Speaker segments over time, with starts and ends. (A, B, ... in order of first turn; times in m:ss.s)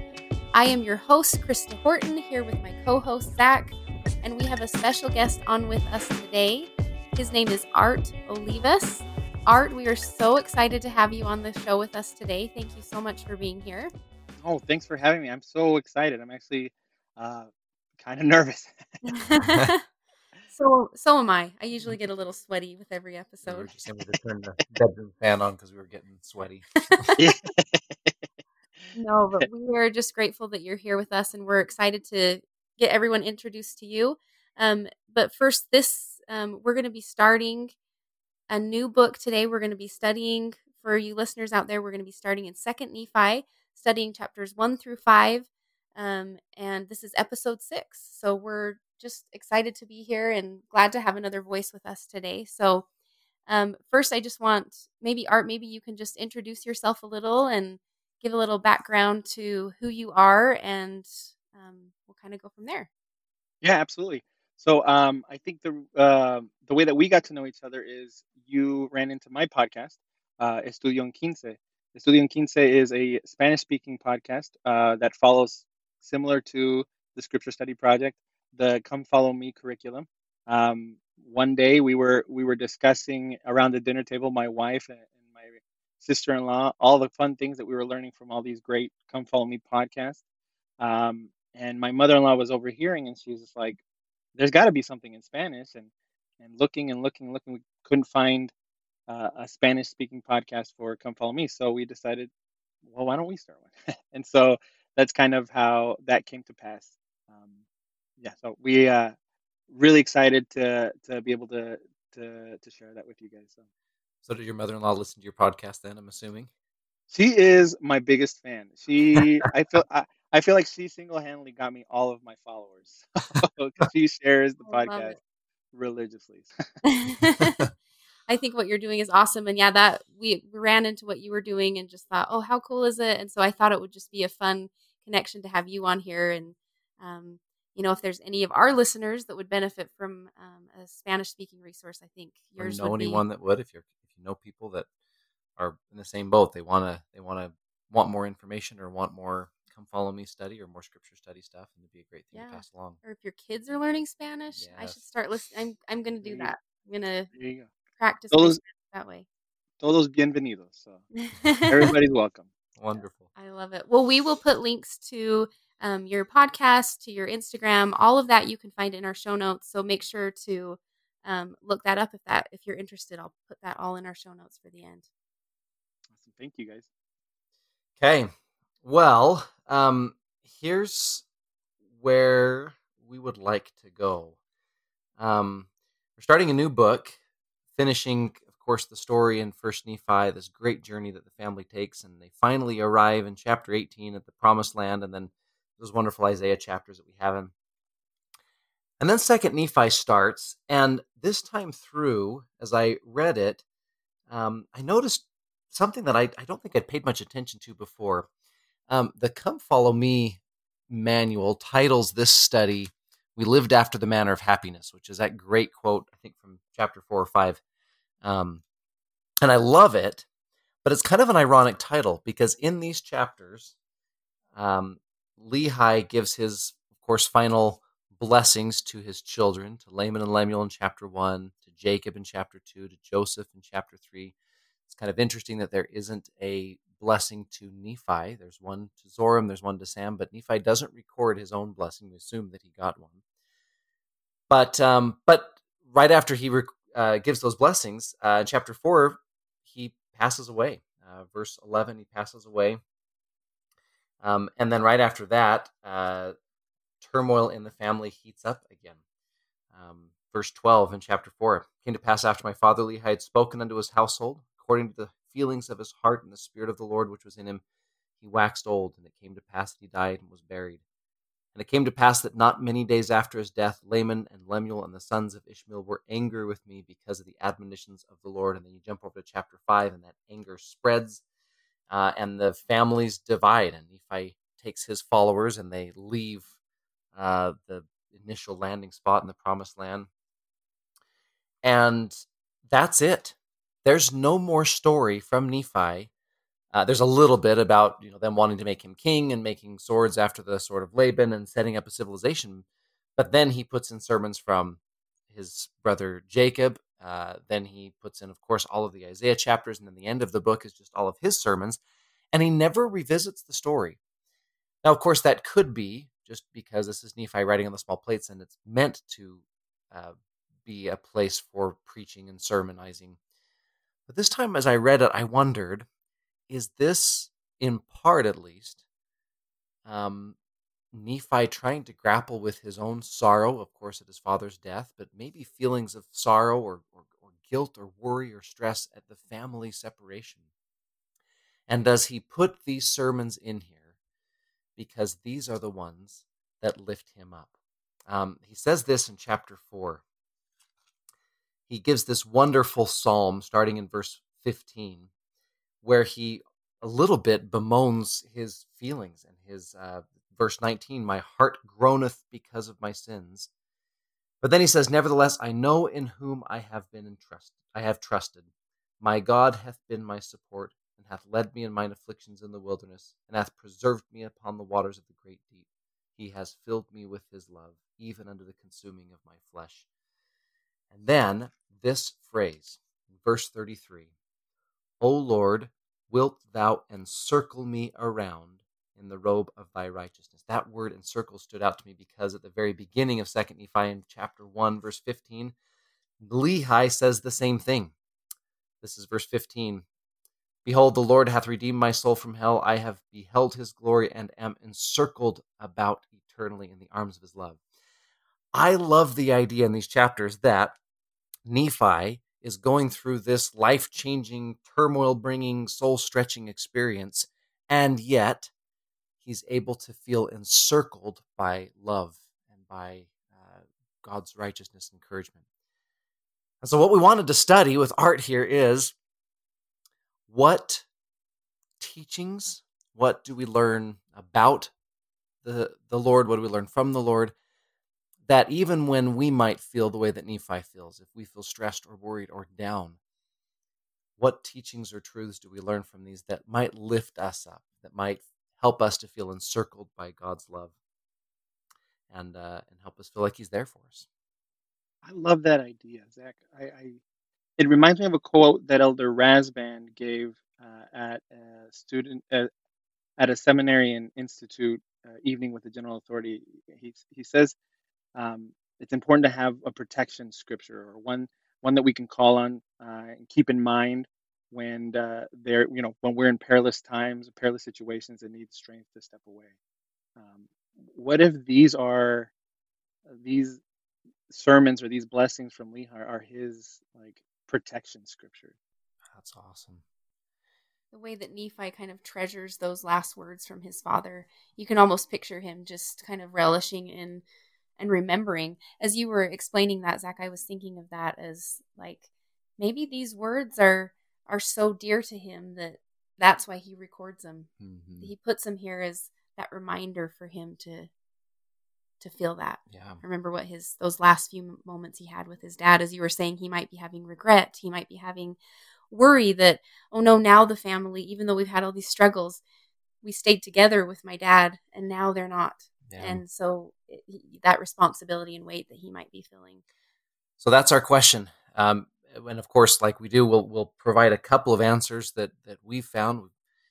0:00.5-0:13.9 A
0:14.4-0:18.7 B
0:19.0-0:19.8 A
0:20.5-0:23.7 A
0:23.4-0:26.7 C
0:26.9-0:27.2 A
0:27.2-0:28.2 B
0:29.0-0:37.7 A
0:38.5-0:52.8 A
0:53.5-1:02.9 A
1:03.6-1:30.2 B
1:30.8-1:33.8 B
1:34.4-1:35.9 B
1:36.4-1:38.5 B
1:39.1-1:42.3 B
1:42.8-1:47.6 B
1:48.2-1:49.2 B
1:49.7-1:53.6 B
1:54.2-1:56.5 C
1:57.1-2:05.2 B
2:04.6-2:05.2 A
2:05.7-2:06.5 B
2:06.8-2:07.7 A
2:08.3-2:23.2 A
2:22.6-2:24.9 C
2:25.6-2:33.0 C
2:32.3-2:37.3 A
2:34.5-2:35.0 C
2:36.2-2:36.5 B
2:37.3-2:37.7 B
2:38.0-2:39.2 A
2:38.3-2:38.6 B
2:39.8-2:41.0 B
2:41.1-2:41.9 A
2:41.7-2:42.5 B
2:42.8-2:43.3 C
2:43.3-2:55.1 A
2:56.1-2:56.9 B
2:58.0-2:58.3 C
2:58.8-3:01.2 C
3:01.9-3:04.4 C
3:05.2-3:07.2 C
3:07.8-3:17.5 C
3:19.0-3:23.6 C
3:24.3-3:28.3 C
3:28.9-3:37.6 C
3:38.2-3:38.6 C
3:39.4-3:40.2 C
3:40.8-3:43.8 C
3:44.5-3:54.3 C
3:54.9-4:03.2 C
4:04.5-4:12.8 C
4:14.2-4:16.3 C
4:17.0-4:19.0 C
4:19.7-4:27.6 C
4:28.2-4:30.8 C
4:31.6-4:41.2 C
4:41.9-4:46.5 C
4:47.1-4:50.1 C
4:51.6-4:52.2 C
4:52.7-4:56.1 C
4:56.7-5:02.6 C
5:03.2-5:11.8 C
5:12.3-5:14.0 C
5:14.8-5:20.1 C
5:20.6-5:23.2 C
5:24.1-5:25.9 C
5:26.5-5:28.8 C
5:29.8-5:30.4 C
5:30.9-5:40.4 C
5:41.7-5:43.8 C
5:44.8-5:47.5 C
5:48.1-5:50.0 C
5:51.7-5:55.1 C
5:55.8-6:03.5 C
6:04.4-6:08.5 C
6:09.0-6:19.9 C
6:20.9-6:24.1 C
6:25.0-6:35.6 C
6:36.2-6:37.9 C
6:38.8-6:39.8 C
6:40.6-6:47.6 C
6:48.5-6:50.8 C
6:51.4-6:58.5 C
6:59.2-7:05.4 C
7:06.6-7:08.9 C
7:10.3-7:10.9 C
7:11.8-7:14.7 C
7:15.4-7:17.3 C
7:18.2-7:23.0 C
7:24.2-7:30.7 C
7:32.1-7:34.1 C
7:35.0-7:37.0 B
7:37.6-7:42.5 B
7:43.2-7:47.6 B
7:48.1-7:59.5 B
8:00.2-8:02.3 B
8:03.1-8:03.6 B
8:04.3-8:08.5 B
8:09.1-8:09.8 C
8:10.9-8:17.2 A
8:17.8-8:22.1 A
8:22.6-8:27.5 A
8:27.6-8:28.1 C
8:28.0-8:30.9 A
8:32.0-8:38.4 A
8:32.7-8:33.0 C
8:38.9-8:42.4 A
8:43.0-8:49.6 A
8:45.9-8:46.2 C
8:50.4-8:56.3 C